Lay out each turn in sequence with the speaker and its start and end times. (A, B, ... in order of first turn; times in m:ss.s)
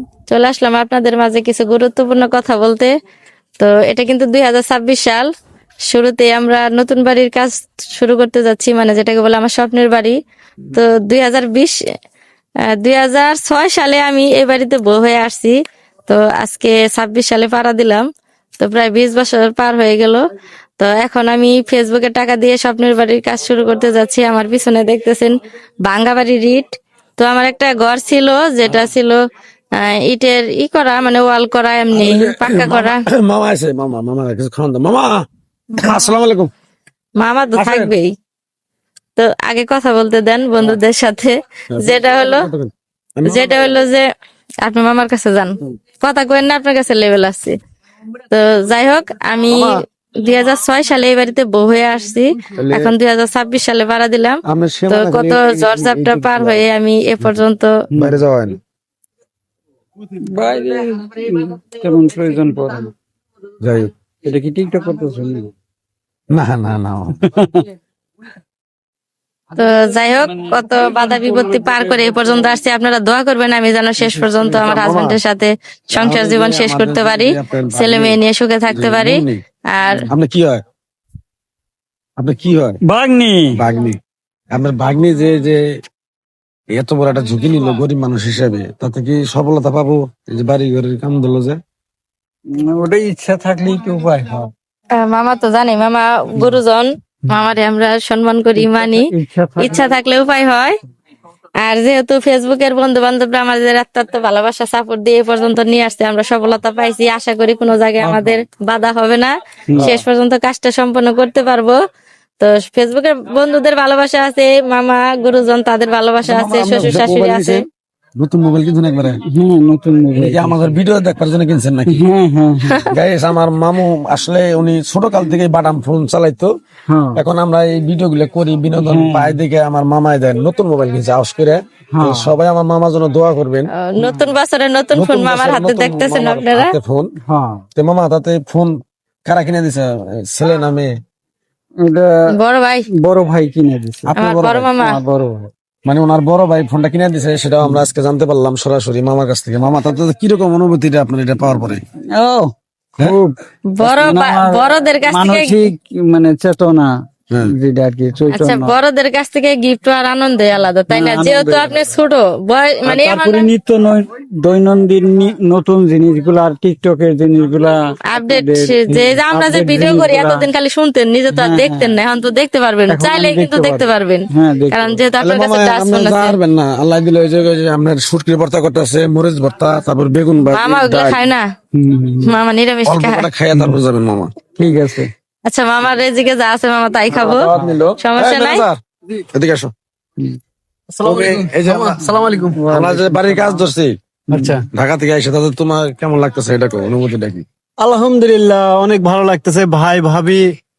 0:00.3-0:02.9 A
0:03.6-0:05.3 A
0:05.9-0:10.2 A
0:10.7-0:11.8 A
0:12.7-0:15.6 A
0:16.1-0:18.0 A
0:18.6-0:20.2 A
0:20.8-0:29.2 A
0:29.8-0:33.0 A
0:31.9-0:35.1 B
0:35.8-0:36.5 B
0:35.8-0:36.0 A
0:37.2-0:38.1 A
0:37.6-0:37.9 B
0:39.2-0:42.5 A
0:41.7-0:43.6 B
0:43.2-0:44.1 A
0:44.6-0:47.6 A
0:48.3-0:57.8 A
0:49.5-0:49.8 B
0:52.6-0:52.9 B
0:54.5-0:56.6 B
0:57.9-0:58.2 C
0:58.0-0:58.6 B
1:00.2-1:02.9 C
1:03.6-1:03.9 B
1:04.2-1:05.5 C
1:06.3-1:07.2 B
1:07.3-1:07.6 C
1:09.6-1:20.1 A
1:10.5-1:11.8 C
1:14.3-1:15.2 B
1:16.0-1:19.4 B
1:20.1-1:20.6 B
1:22.2-1:22.8 B
1:22.9-1:23.6 C
1:23.6-1:24.0 B
1:24.5-1:25.6 B
1:26.7-1:31.6 B
1:32.5-1:34.5 C
1:35.0-1:40.8 A
1:38.6-1:39.8 C
1:41.6-1:51.8 A
1:49.7-1:50.0 B
1:52.4-1:57.6 A
1:56.2-1:57.6 B
1:58.2-1:59.2 B
1:59.2-2:00.8 C
2:00.2-2:02.0 B
2:01.9-2:02.8 C
2:02.9-2:06.5 B
2:06.9-2:07.2 C
2:07.2-2:13.7 B
2:08.7-2:09.4 C
2:11.9-2:12.4 C
2:13.8-2:16.8 A
2:14.0-2:14.3 C
2:14.9-2:17.1 B
2:17.3-2:17.6 C
2:17.8-2:18.7 B
2:19.2-2:20.9 B
2:21.8-2:22.1 C
2:22.3-2:22.9 A
2:23.0-2:24.1 C
2:24.0-2:24.7 B
2:24.2-2:25.0 A
2:24.8-2:25.5 C
2:25.9-2:31.8 B
2:32.2-2:36.9 C
2:33.7-2:35.7 A
2:37.5-2:38.7 C
2:38.3-2:43.5 A
2:40.9-2:41.8 C
2:42.8-2:50.5 C
2:48.1-2:56.4 A
2:51.3-2:52.0 C
2:52.9-2:55.0 C
2:55.2-3:01.2 B
3:00.5-3:01.4 A
3:01.8-3:02.4 C
3:02.2-3:03.3 A
3:02.9-3:04.4 B
3:04.6-3:05.1 C
3:05.5-3:08.6 A
3:07.1-3:08.8 B
3:09.3-3:09.7 B
3:11.0-3:12.6 D
3:11.0-3:12.1 B
3:11.0-3:13.7 C
3:12.7-3:14.0 B
3:14.3-3:14.7 C
3:14.3-3:14.7 D
3:14.7-3:17.4 B
3:17.8-3:20.5 D